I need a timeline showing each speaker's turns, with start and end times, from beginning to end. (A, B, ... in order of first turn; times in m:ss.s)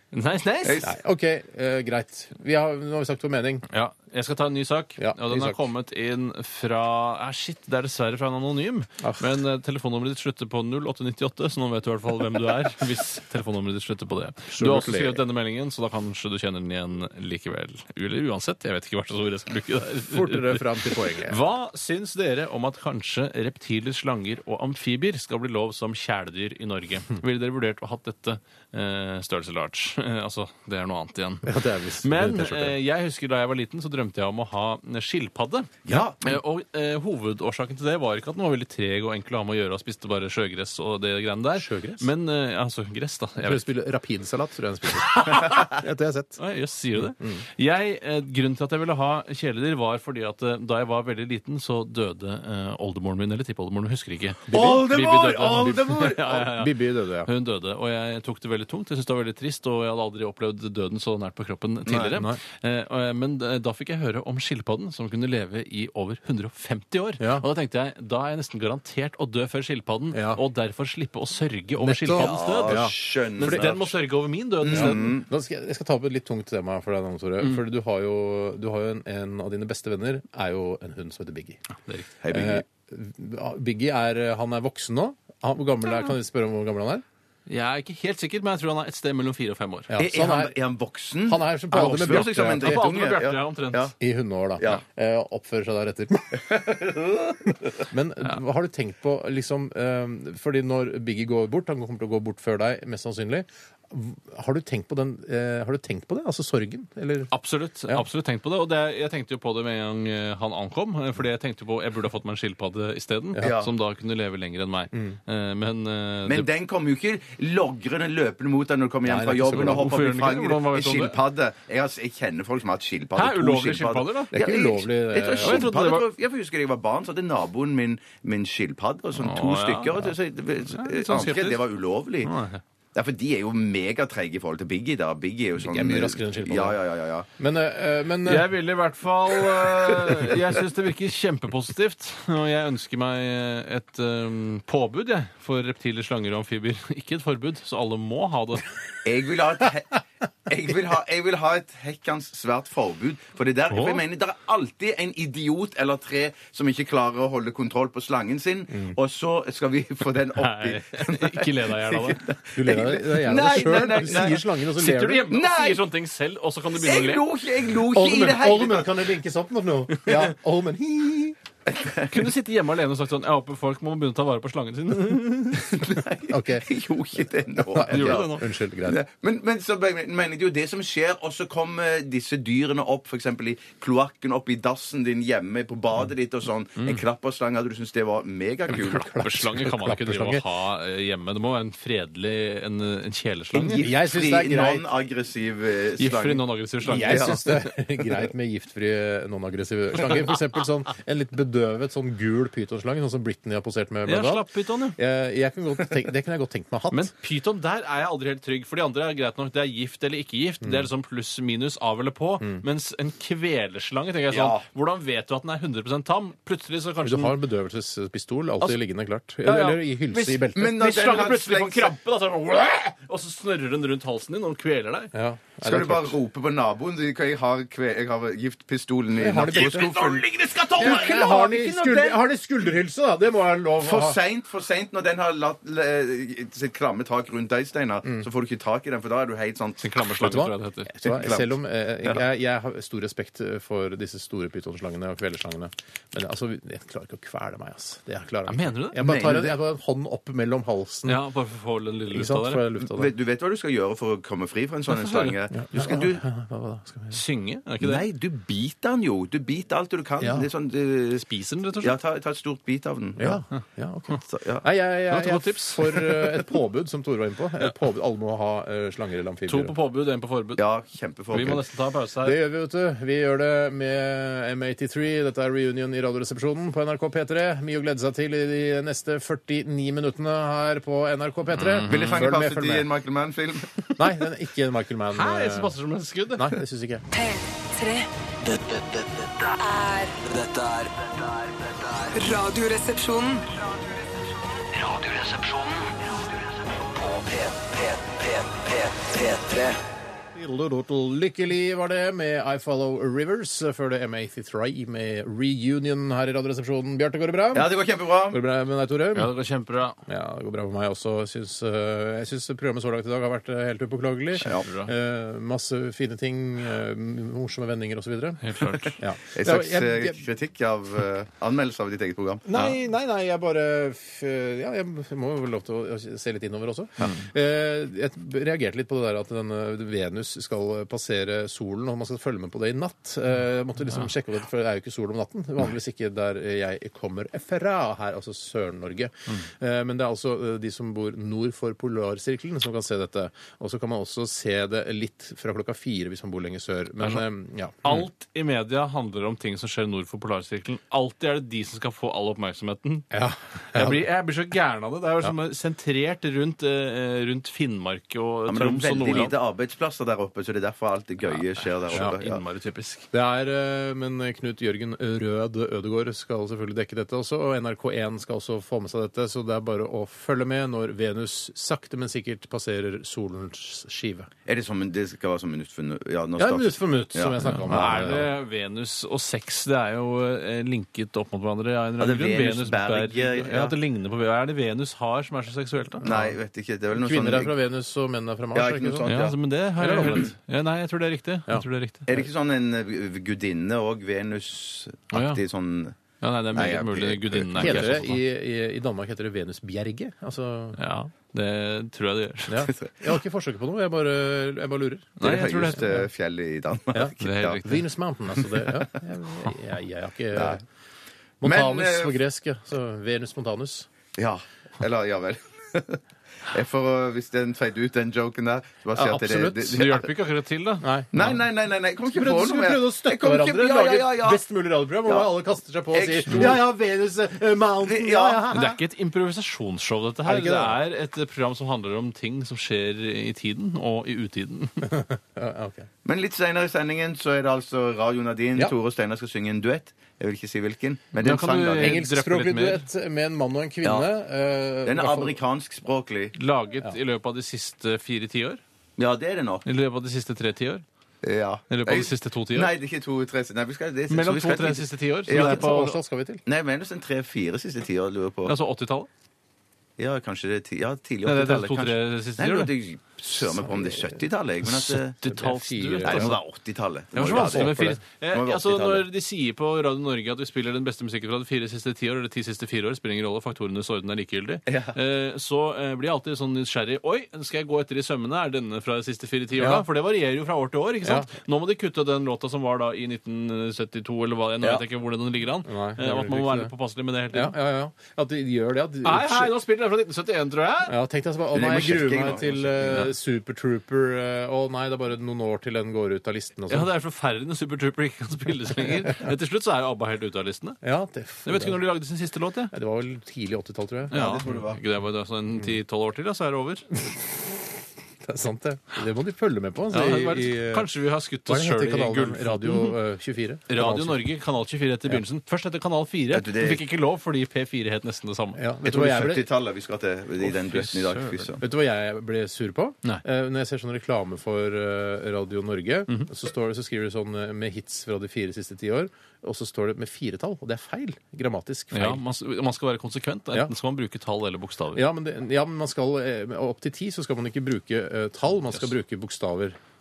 0:00.1-0:00.9 A
0:00.6-0:00.9 B
0:00.8-0:03.6 C
0:03.7-0:43.6 A
0:05.0-0:05.6 C
0:09.0-0:09.3 C
0:14.5-0:15.2 C
0:20.1-0:21.4 C
0:31.4-0:32.8 C
0:35.8-0:36.2 B
0:41.6-0:42.1 C
0:43.4-0:46.4 C
0:45.1-0:45.7 A
0:46.4-1:15.2 A
0:47.2-0:47.4 C
0:54.5-0:54.9 C
0:54.5-0:56.4 B
0:55.5-0:57.3 C
1:02.1-1:02.4 C
1:07.2-1:07.4 C
1:10.1-1:10.4 C
1:11.8-1:13.7 C
1:12.2-1:13.9 B
1:14.6-1:15.3 B
1:14.7-1:21.6 C
1:21.8-1:22.1 A
1:22.2-1:22.6 B
1:22.3-1:27.0 C
1:27.5-1:30.0 A
1:29.9-1:30.5 C
1:30.0-1:33.9 B
1:31.2-1:32.9 C
1:31.7-1:33.9 A
1:34.0-1:36.9 C
1:37.4-1:47.3 C
1:47.3-1:56.5 A
1:53.4-1:53.7 B
1:54.9-1:55.2 C
1:56.3-2:12.3 B
1:59.0-1:59.9 C
1:59.5-2:01.2 A
2:03.2-2:04.3 A
2:04.3-2:05.7 C
2:05.4-2:06.0 A
2:09.2-2:10.1 A
2:10.6-2:11.6 A
2:12.2-2:12.6 A
2:12.9-2:17.3 B
2:15.6-2:16.8 C
2:17.4-2:18.5 C
2:18.2-2:28.6 A
2:29.0-2:44.4 B
2:33.7-2:34.0 A
2:40.4-2:42.2 A
2:42.5-2:45.3 C
2:43.9-2:47.2 A
2:45.3-2:45.8 B
2:46.7-2:49.0 B
2:47.9-2:51.4 C
2:51.7-2:52.1 B
2:52.1-2:55.8 A
2:55.7-3:09.1 B
2:56.3-2:56.7 C
2:57.7-2:59.0 C
2:57.9-2:58.4 A
3:08.7-3:10.4 C
3:08.7-3:13.9 A
3:13.5-3:17.4 B
3:13.8-3:14.9 C
3:16.0-3:17.6 A
3:16.8-3:27.1 C
3:24.0-3:25.0 A
3:26.9-3:37.3 A
3:30.6-3:30.9 C
3:34.3-3:34.6 B
3:37.0-3:40.7 C
3:39.4-3:45.1 A
3:40.5-3:41.9 B
3:45.1-3:46.2 C
3:45.6-3:52.2 B
3:49.2-3:50.0 C
3:49.5-3:51.1 A
3:50.8-3:54.2 C
3:53.8-3:59.8 B
3:59.8-4:00.9 A
4:00.2-4:11.2 C
4:01.0-4:01.5 B
4:08.5-4:09.0 A
4:09.0-4:09.5 B
4:11.0-4:12.6 A
4:12.1-4:13.1 C
4:12.8-4:16.2 B
4:14.9-4:15.4 A
4:15.6-4:17.2 C
4:17.1-4:18.0 A
4:17.8-4:21.2 B
4:20.2-4:20.5 C
4:21.1-4:21.9 A
4:21.8-4:23.4 B
4:23.2-4:29.7 C
4:24.2-4:24.6 B
4:25.1-4:26.4 A
4:29.5-4:30.6 A
4:30.6-4:31.6 B
4:31.3-4:32.4 A
4:32.2-4:42.9 C
4:41.6-4:42.2 A
4:41.9-4:43.8 B
4:44.0-4:45.8 C
4:45.1-4:46.6 A
4:46.3-4:47.0 C
4:47.1-4:48.1 D
4:48.4-4:52.2 E
4:49.7-4:50.1 D
4:52.1-4:53.5 D
4:54.7-4:59.8 E
5:00.3-5:07.7 C
5:07.5-5:08.4 B
5:08.3-5:09.3 C
5:09.1-5:10.0 A
5:10.0-5:20.2 C
5:14.4-5:14.9 A
5:18.4-5:19.0 A
5:18.8-5:22.5 B
5:22.5-5:48.0 C
5:47.8-5:53.1 A
5:53.1-5:54.0 C
5:53.7-5:59.3 A
5:58.5-6:02.4 B
6:01.9-6:03.1 A
6:03.1-6:14.3 C
6:14.4-6:18.0 B
6:16.4-6:18.3 C
6:17.4-6:26.0 A
6:22.0-6:23.8 B
6:26.0-6:26.4 C
6:26.0-6:27.5 B
6:26.9-6:29.1 C
6:28.5-6:29.4 B
6:29.0-6:32.1 A
6:29.8-6:30.3 C
6:30.0-6:30.3 B
6:32.1-6:36.0 B
6:35.1-6:35.4 A
6:36.2-6:38.2 A
6:36.5-6:38.0 B
6:37.6-6:40.8 C
6:40.8-6:42.6 A
6:42.5-6:46.0 C
6:45.2-6:46.0 A
6:45.2-6:47.7 B
6:46.9-6:50.6 C
6:47.2-6:47.8 A
6:48.6-6:48.9 B
6:50.3-6:50.6 B
6:51.4-6:53.9 C
6:51.4-6:52.2 B
6:54.2-7:00.1 B
6:58.9-6:59.9 C
6:59.7-7:01.3 A
7:00.8-7:01.2 C
7:01.1-7:04.4 B
7:02.1-7:08.8 C
7:05.9-7:06.6 B
7:07.8-7:08.4 B
7:08.5-7:14.9 A
7:10.2-7:10.8 C
7:14.8-7:15.9 C
7:16.0-7:22.0 B
7:21.2-7:22.8 A
7:21.8-7:25.4 C
7:23.8-7:24.1 B
7:24.8-7:26.3 B
7:26.3-7:28.6 A
7:29.0-7:29.6 B
7:29.6-7:30.8 A
7:31.2-7:35.8 B
7:31.7-7:32.7 A
7:34.1-7:36.0 A
7:35.3-7:36.4 C
7:36.4-7:38.5 B
7:38.5-7:39.1 A
7:40.0-7:45.2 B
7:41.2-7:42.7 A
7:43.4-7:44.2 C
7:44.7-7:46.4 A
7:45.2-7:46.4 C
7:46.0-7:49.0 B
7:47.1-8:07.5 A
7:47.2-7:48.0 C
7:54.7-7:54.9 B
7:59.6-7:59.9 C
8:01.0-8:01.3 C
8:05.6-8:06.7 C
8:07.3-8:09.6 C
8:09.0-8:10.9 A
8:10.9-8:16.9 C
8:11.5-8:13.1 B
8:16.7-8:20.8 A
8:20.8-8:21.8 C
8:21.4-8:22.7 A
8:22.7-8:24.2 C
8:24.1-8:24.8 B
8:24.1-8:26.9 A
8:27.0-8:27.6 C
8:28.2-8:30.9 C
8:29.9-8:33.0 A
8:31.4-8:34.2 C
8:33.7-8:38.6 A
8:36.3-8:36.8 B
8:38.6-8:39.4 C
8:38.8-8:41.6 B
8:40.4-8:41.5 A
8:41.6-8:52.2 C
8:51.9-8:55.1 A
8:54.9-8:59.8 C